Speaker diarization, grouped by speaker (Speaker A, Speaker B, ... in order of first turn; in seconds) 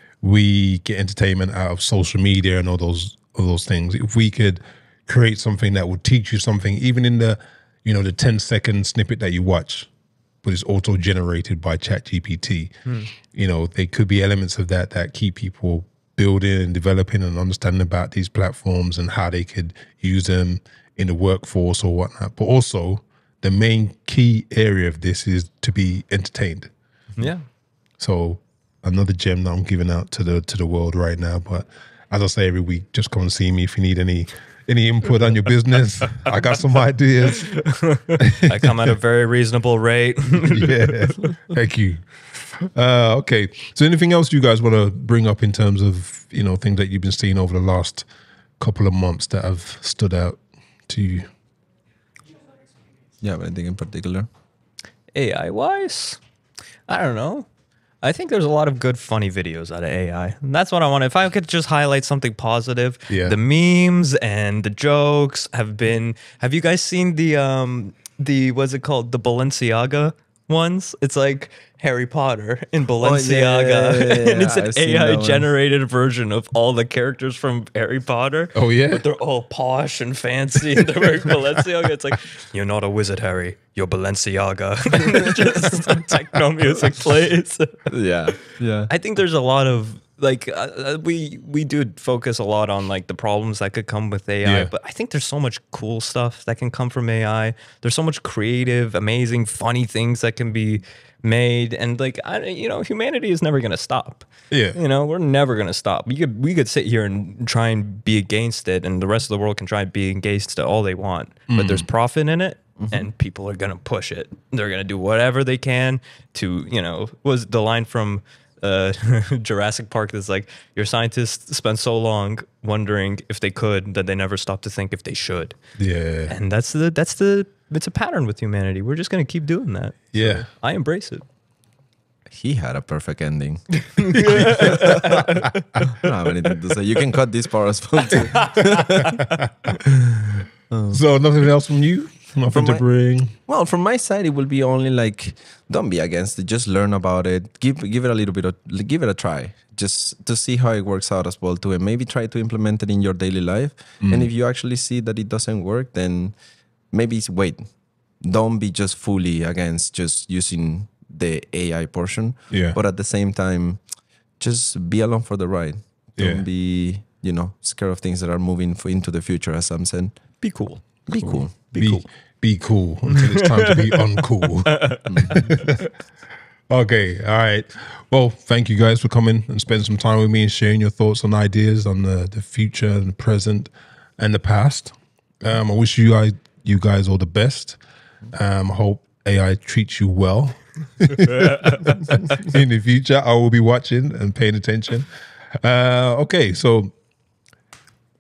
Speaker A: 0.2-9.9, 10.4-26.7, 28.0-38.9, 40.4-48.0, 48.6-51.3, 63.1-63.4, 78.5-79.0, 94.4-94.7, 104.5-104.8, 111.5-111.8, 125.8-126.3, 130.1-130.4, 134.1-135.5, 138.6-139.7, 140.9-143.3, 154.0-154.3, 162.5-162.8, 166.2-166.4, 171.2-175.8, 176.7-187.8, 188.3-195.1, 195.6-196.9
Speaker B: 12.8-13.1, 27.2-27.4, 37.7-41.3, 55.1-56.2, 56.9-57.5, 58.0-87.9, 88.9-125.6, 126.3-131.2, 134.1-135.5, 138.5-139.1, 170.4-171.1, 171.7-172.0, 173.1-174.0, 174.7-175.5, 191.2-192.0
Speaker C: 53.2-54.3, 73.0-75.5, 87.9-88.9, 112.8-113.1, 132.3-135.4, 135.9-139.2, 140.7-141.0, 142.5-142.8, 143.5-156.3, 156.9-157.7, 158.2-163.8, 164.4-170.1, 171.1-171.8, 175.1-175.5